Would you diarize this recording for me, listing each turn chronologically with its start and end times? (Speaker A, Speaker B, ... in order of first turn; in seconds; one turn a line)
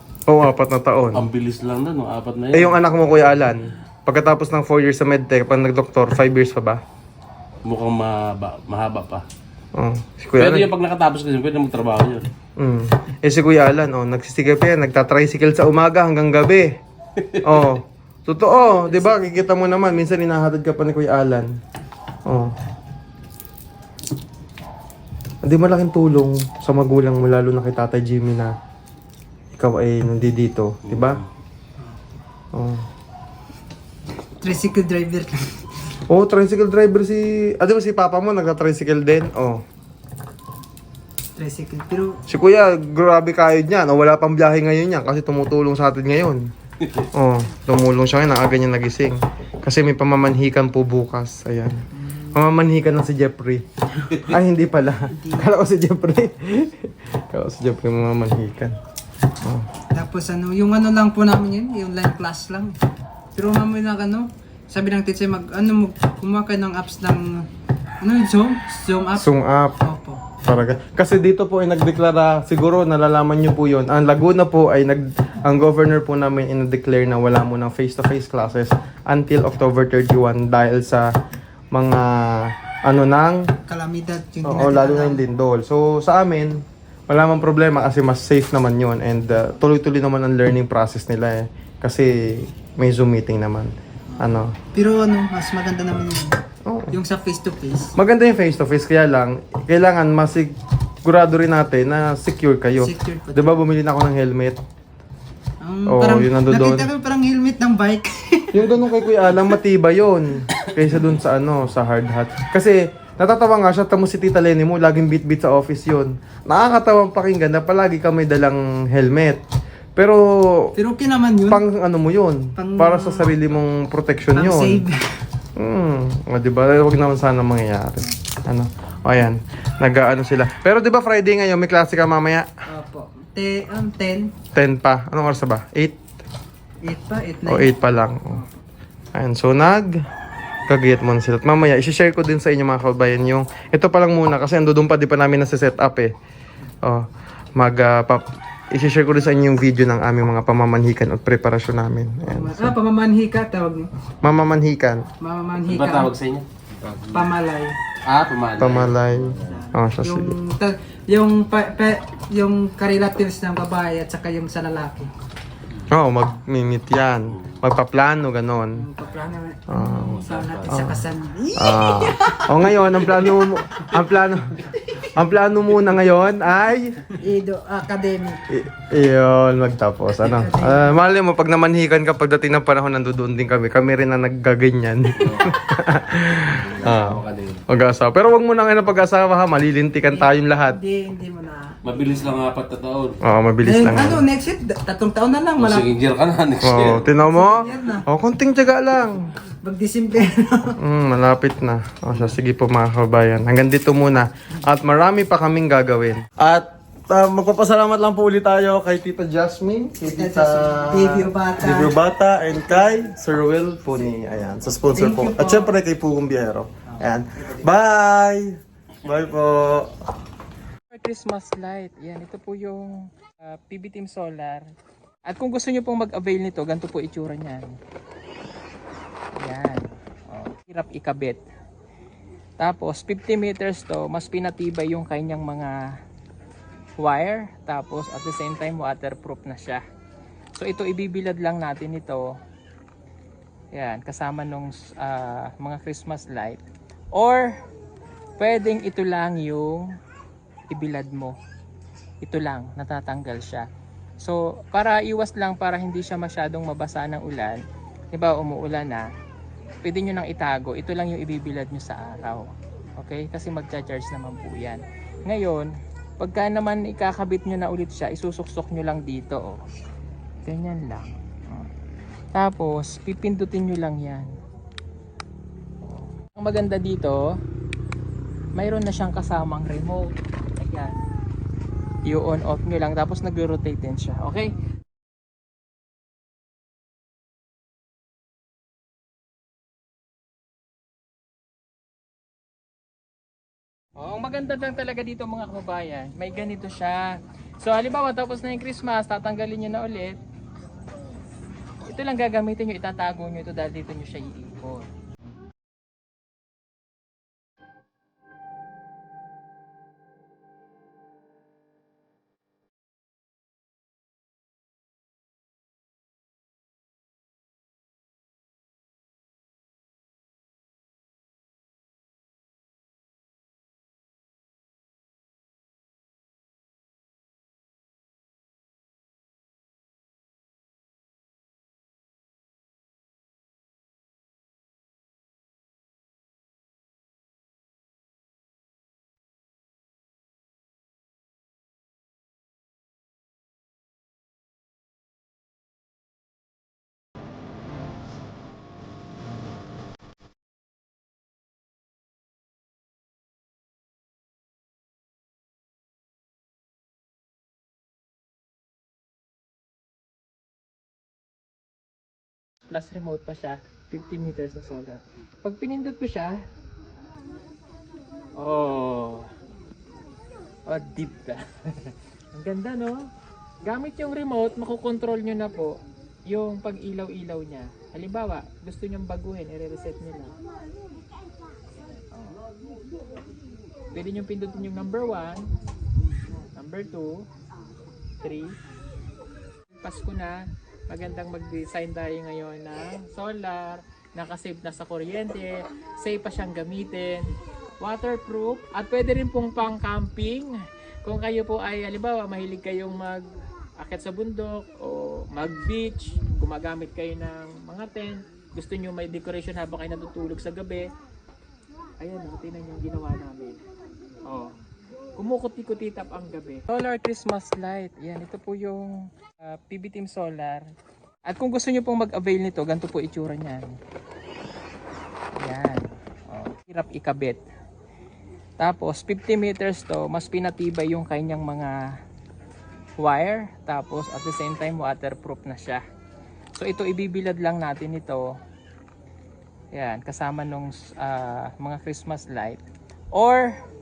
Speaker A: 0.3-1.2
Speaker B: 1.1-2.8
Speaker A: 2.5-6.8
Speaker B: 7.6-9.2
Speaker A: 9.7-10.7
Speaker B: 10.4-12.3
Speaker A: 12.6-16.8
Speaker B: 17.2-17.4
Speaker A: 17.4-21.6
Speaker A: 22.2-22.5
Speaker A: 25.4-28.5
Speaker A: 29.6-31.2
Speaker B: 30.9-31.2
Speaker A: 32.5-32.8
Speaker C: 34.4-35.9
Speaker A: 36.1-39.6
Speaker C: 41.4-42.2
Speaker A: 42.3-46.5
Speaker A: 47.1-58.8
Speaker C: 51.9-52.4
Speaker C: 55.1-55.5
Speaker A: 59.4-59.7
Speaker C: 59.9-62.8
Speaker C: 63.3-67.5
Speaker C: 68.0-70.4
Speaker A: 69.2-69.8
Speaker A: 70.4-81.1
Speaker A: 81.7-83.5
Speaker C: 83.7-85.2
Speaker A: 84.4-94.5
Speaker C: 94.1-96.4
Speaker A: 96.6-97.0
Speaker C: 96.9-97.9
Speaker A: 98.0-104.6
Speaker C: 102.8-103.5
Speaker C: 105.6-108.7
Speaker A: 105.9-106.9
Speaker A: 108.5-119.4
Speaker A: 120.0-120.7
Speaker C: 120.8-121.6
Speaker A: 121.5-124.8
Speaker C: 122.5-123.3
Speaker C: 124.3-125.1
Speaker A: 125.5-132.5
Speaker C: 132.7-134.3
Speaker A: 134.5-136.0
Speaker C: 136.8-137.7
Speaker A: 137.4-138.4
Speaker C: 138.3-138.6
Speaker A: 139.1-139.9
Speaker A: 140.7-146.1
Speaker A: 146.8-152.7
Speaker C: 152.2-153.9
Speaker A: 154.2-155.1
Speaker C: 155.2-156.1
Speaker B: 155.7-157.0
Speaker C: 157.1-157.8
Speaker B: 158.0-159.1
Speaker A: 158.6-160.3
Speaker C: 159.4-165.1
Speaker A: 165.9-168.9
Speaker C: 168.7-172.5
Speaker A: 169.7-171.0
Speaker A: 171.6-177.1
Speaker C: 177.1-178.5
Speaker A: 178.5-190.8
Speaker C: 180.2-181.0
Speaker B: 186.9-187.6
Speaker C: 190.1-191.8
Speaker B: 191.8-193.2
Speaker A: 193.2-194.2
Speaker C: 193.6-195.9
Speaker B: 195.6-197.0
Speaker A: 196.6-199.3
Speaker C: 197.1-198.1
Speaker C: 199.6-200.8
Speaker A: 200.8-219.9
Speaker C: 210.0-211.9
Speaker C: 214.9-215.7
Speaker C: 216.9-217.7
Speaker D: 220.9-224.7
Speaker D: 225.2-227.8
Speaker D: 229.3-231.4
Speaker D: 232.6-236.0
Speaker D: 237.0-239.8
Speaker D: 240.6-242.4
Speaker D: 243.7-246.6
Speaker D: 247.1-247.6
Speaker D: 248.4-249.9
Speaker D: 250.7-251.4
Speaker D: 252.2-253.7
Speaker D: 254.2-259.1
Speaker D: 259.8-269.6
Speaker D: 270.4-271.7
Speaker D: 272.3-274.3
Speaker D: 275.8-277.4
Speaker D: 278.5-281.0
Speaker D: 282.1-284.5
Speaker D: 294.0-300.2
Speaker D: 301.8-304.9
Speaker D: 362.7-366.4
Speaker D: 368.4-369.3
Speaker D: 370.6-373.1
Speaker D: 373.6-380.3
Speaker D: 382.1-382.4
Speaker D: 383.9-385.5
Speaker D: 386.5-387.2
Speaker D: 388.2-388.5
Speaker D: 389.7-400.5
Speaker D: 401.0-403.2
Speaker D: 403.8-410.9
Speaker D: 412.0-413.6
Speaker D: 414.3-414.5
Speaker D: 415.2-420.7
Speaker D: 421.3-423.8
Speaker D: 425.4-427.4
Speaker D: 428.6-432.0
Speaker D: 433.0-435.8
Speaker D: 436.6-438.4
Speaker D: 439.7-442.6
Speaker D: 443.1-443.6